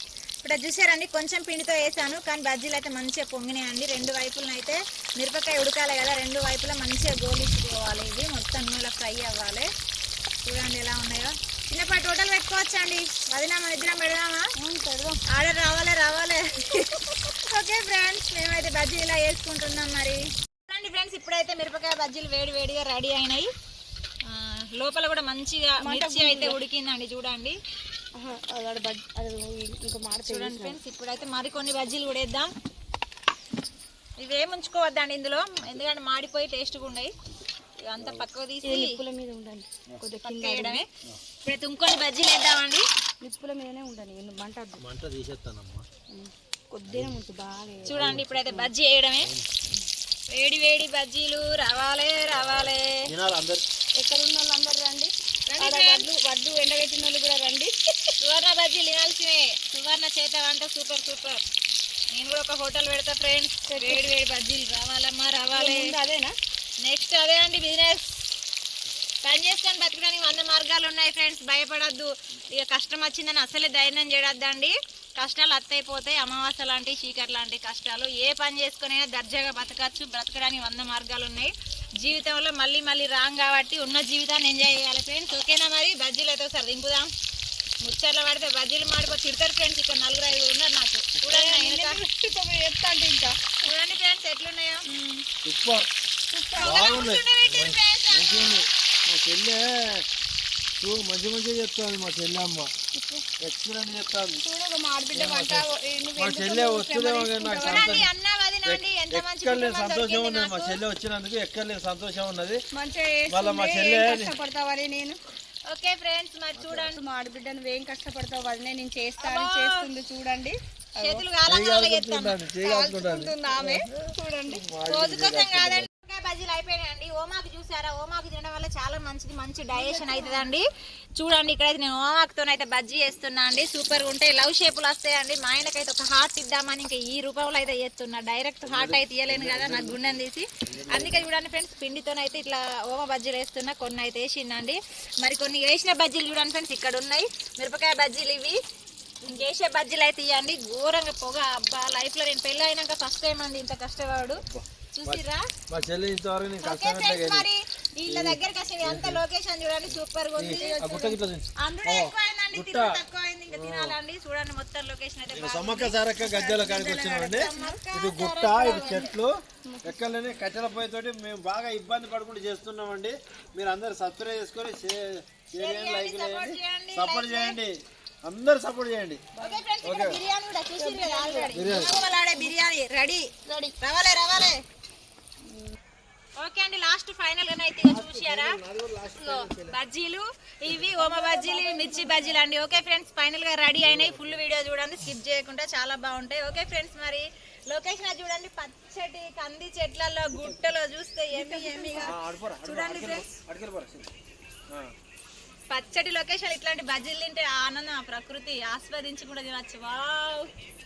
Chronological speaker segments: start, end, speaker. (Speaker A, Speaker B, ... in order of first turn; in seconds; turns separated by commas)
Speaker A: 0.4-9.7, Speaker A: 10.4-14.5, Speaker B: 14.6-15.2, Speaker A: 15.3-23.5, Speaker A: 24.3-27.6, Speaker B: 25.8-26.6, Speaker B: 28.1-30.8, Speaker A: 30.3-32.5, Speaker A: 34.2-37.1, Speaker C: 35.6-35.9, Speaker A: 37.9-39.0, Speaker C: 38.0-38.2, Speaker B: 38.6-40.8, Speaker A: 40.2-40.9, Speaker A: 41.4-42.9, Speaker B: 43.2-44.8, Speaker C: 44.8-45.8, Speaker B: 46.1-48.7, Speaker C: 46.9-47.2, Speaker C: 47.9-48.3, Speaker A: 47.9-49.3, Speaker A: 50.3-53.0, Speaker C: 52.3-53.6, Speaker B: 54.0-57.7, Speaker A: 55.5-56.1, Speaker A: 58.2-61.4, Speaker A: 62.1-65.9, Speaker B: 63.7-64.1, Speaker B: 65.5-66.3, Speaker A: 66.8-68.2, Speaker A: 69.2-87.1, Speaker A: 87.8-92.0, Speaker B: 91.2-93.4, Speaker A: 93.6-94.9, Speaker B: 94.9-95.2, Speaker C: 95.4-95.9, Speaker B: 96.3-97.0, Speaker A: 96.6-98.7, Speaker C: 96.6-100.1, Speaker C: 100.8-102.7, Speaker B: 102.9-103.2, Speaker C: 103.4-104.4, Speaker B: 104.4-108.0, Speaker C: 105.1-105.7, Speaker C: 106.2-108.1, Speaker A: 107.6-110.8, Speaker C: 108.7-112.6, Speaker B: 112.7-115.2, Speaker C: 113.3-114.4, Speaker A: 115.7-117.0, Speaker C: 116.6-116.9, Speaker B: 116.9-121.2, Speaker A: 119.2-119.9, Speaker A: 121.0-122.5, Speaker C: 121.5-125.9, Speaker B: 122.6-124.6, Speaker A: 124.9-130.7, Speaker B: 129.7-130.5, Speaker A: 131.2-148.6, Speaker C: 138.6-141.3, Speaker A: 149.2-155.5, Speaker C: 154.4-157.5, Speaker A: 156.6-160.8, Speaker C: 158.1-159.2, Speaker C: 160.4-164.0, Speaker B: 160.5-161.2, Speaker A: 161.6-166.0, Speaker C: 165.3-179.2, Speaker B: 166.2-167.8, Speaker A: 167.3-169.1, Speaker B: 169.7-169.9, Speaker A: 175.6-177.6, Speaker B: 179.4-179.6, Speaker A: 179.4-184.6, Speaker C: 179.8-180.2, Speaker B: 180.8-182.5, Speaker C: 181.5-181.9, Speaker B: 183.5-183.8, Speaker A: 186.4-188.6, Speaker C: 187.8-189.8, Speaker A: 189.2-203.3, Speaker B: 190.9-192.4, Speaker C: 193.8-194.4, Speaker B: 201.3-202.2, Speaker C: 202.0-204.1, Speaker A: 205.7-210.5